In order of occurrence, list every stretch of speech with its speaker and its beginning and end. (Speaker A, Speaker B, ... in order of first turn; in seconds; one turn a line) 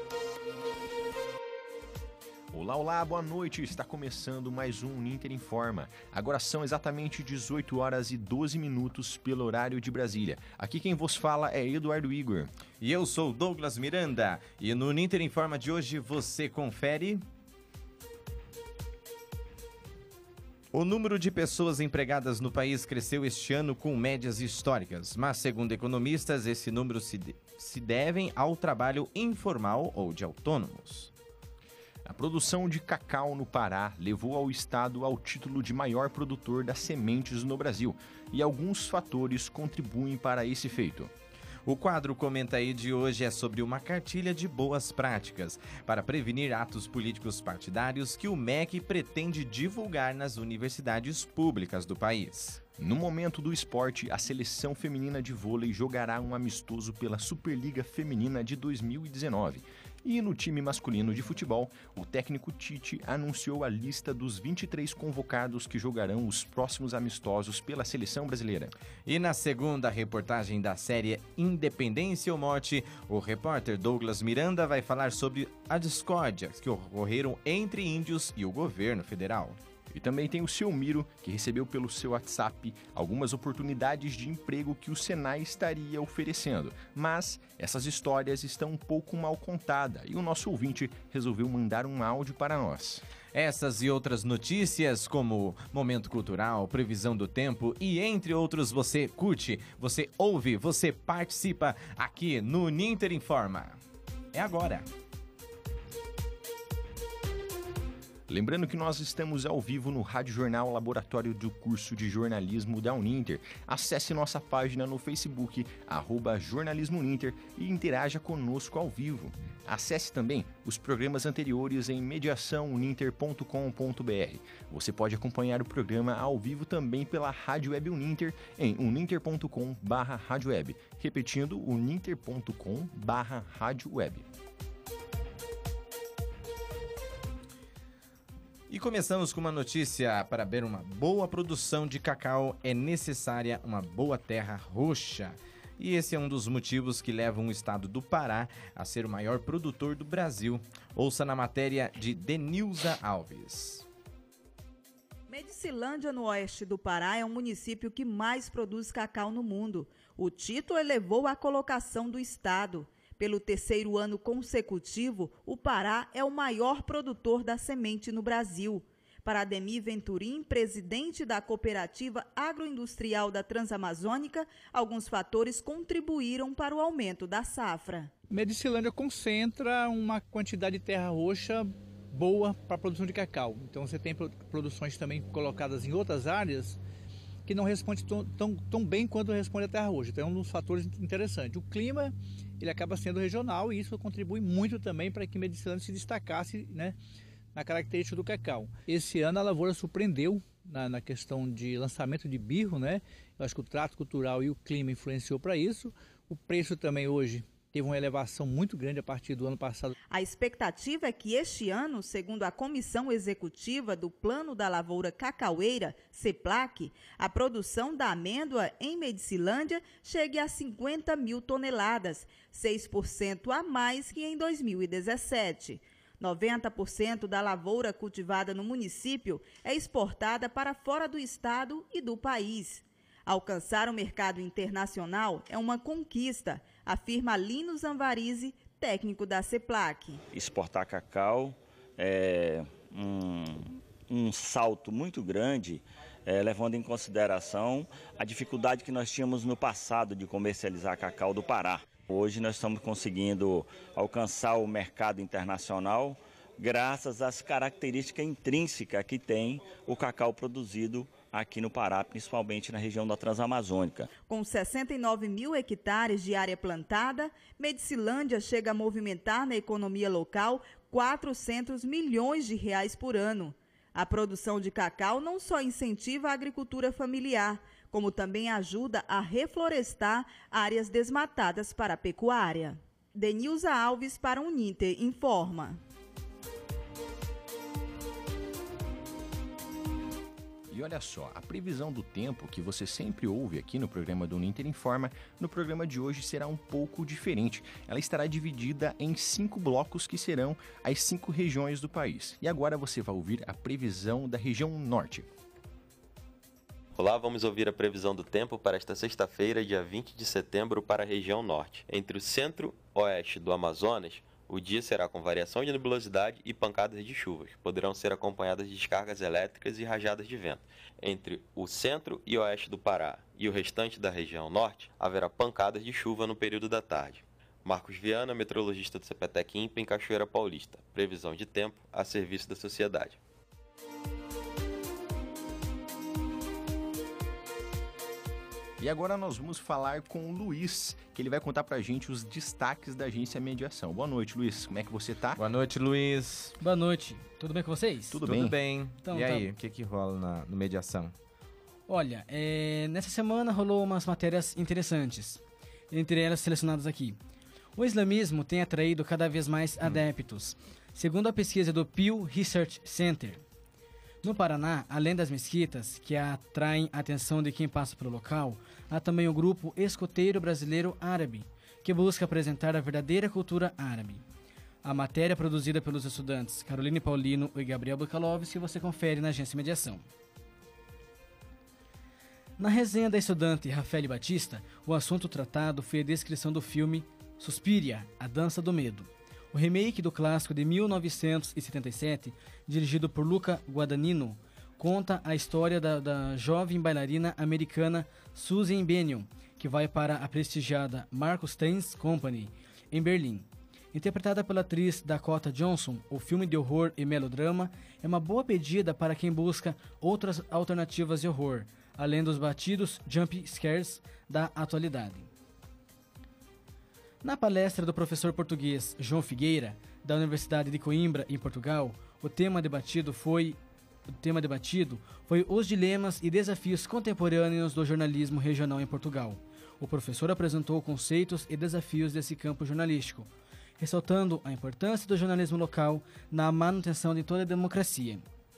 Speaker A: 2.5-12.5
Speaker B: 12.8-17.2
Speaker B: 20.7-31.1
Speaker A: 32.0-41.1
Speaker B: 41.6-52.6
Speaker A: 52.8-68.7
Speaker B: 69.0-79.6
Speaker A: 79.9-93.0
Speaker B: 93.3-103.8
Speaker B: 104.3-104.9
Speaker A: 108.3-134.2
Speaker B: 138.7-153.8
Speaker C: 155.3-178.1
Speaker D: 178.3-186.8
Speaker D: 187.4-196.9
Speaker D: 197.5-209.9
Speaker C: 210.1-240.2
Speaker E: 240.3-264.1
Speaker C: 264.3-285.8
Speaker A: 290.7-305.3
Speaker F: 306.9-333.2
Speaker A: 338.8-345.4
Speaker B: 345.4-346.6
Speaker G: 346.6-348.2
Speaker A: 348.1-348.6
Speaker B: 348.2-351.1
Speaker G: 349.0-349.5
Speaker G: 351.9-357.2
Speaker G: 357.8-363.4
Speaker G: 364.2-374.2
Speaker G: 374.8-380.1
Speaker G: 382.6-415.3
Speaker G: 417.2-423.6
Speaker G: 424.2-438.2